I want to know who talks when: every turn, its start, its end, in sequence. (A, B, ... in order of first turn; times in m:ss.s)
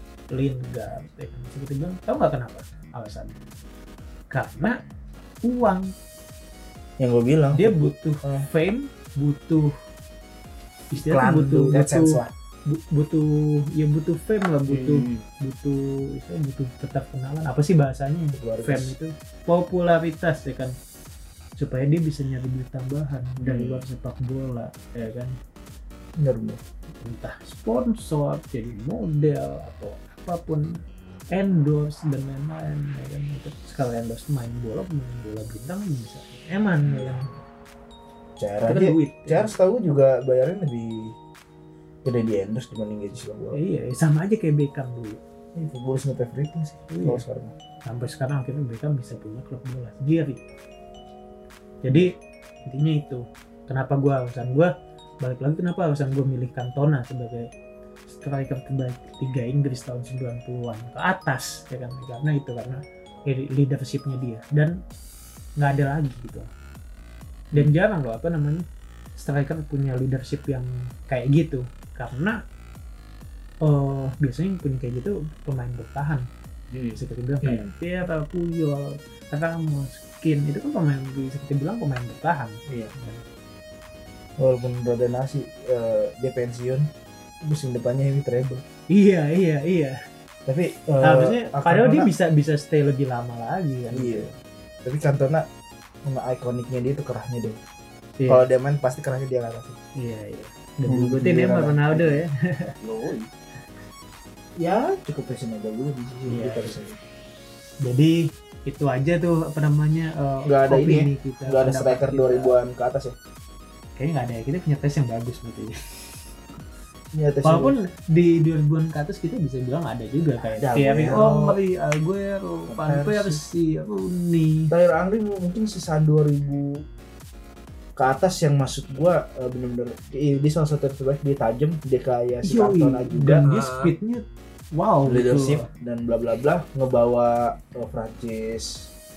0:00.3-0:03.4 A
0:04.3-0:04.8 A
0:05.4-0:05.9 A
0:07.0-0:08.5 B
0:07.6-0:09.8 A
0:10.9-0:20.8 A
0:10.9-0:12.3 B
0:14.7-0:15.2 C
0:18.3-0:19.0 B
0:21.6-0:25.4 A
0:23.4-0:23.8 C
0:26.2-0:26.6 B
0:27.0-0:37.4 A
0:36.8-0:37.3 B
0:38.4-0:41.2 B
0:38.7-0:39.5 A
0:42.0-0:43.6 B
0:43.5-0:45.2 A
0:45.6-0:47.5 B
0:46.9-0:47.2 A
0:47.8-0:50.4 A
0:51.8-0:52.1 A
0:52.6-0:57.5 A
0:58.1-1:04.8 A
1:05.6-1:06.5 A
1:07.5-1:08.7 A
1:09.2-1:12.4 A
1:13.6-1:16.3 A
1:16.7-1:17.7 C
1:17.0-1:23.2 A
1:22.7-1:22.9 C
1:24.4-1:26.9 B
1:27.4-1:28.6 B
1:28.9-1:30.0 A
1:30.5-1:32.1 B
1:31.0-1:34.4 A
1:33.9-1:34.3 B
1:34.8-1:35.4 B
1:36.0-1:37.6 B
1:38.2-1:38.4 A
1:38.3-1:39.8 B
1:40.0-1:42.8 A
1:40.9-1:42.2 B
1:42.8-1:43.3 B
1:44.6-1:47.0 B
1:46.3-1:46.8 A
1:47.8-1:52.6 A
1:50.5-1:53.2 B
1:54.0-1:56.0 A
1:57.1-1:57.8 B
1:57.4-2:04.7 A
2:00.4-2:01.6 B
2:02.7-2:03.4 B
2:04.7-2:06.8 B
2:08.0-2:13.4 B
2:12.4-2:15.7 A
2:13.4-2:13.9 C
2:15.0-2:18.9 B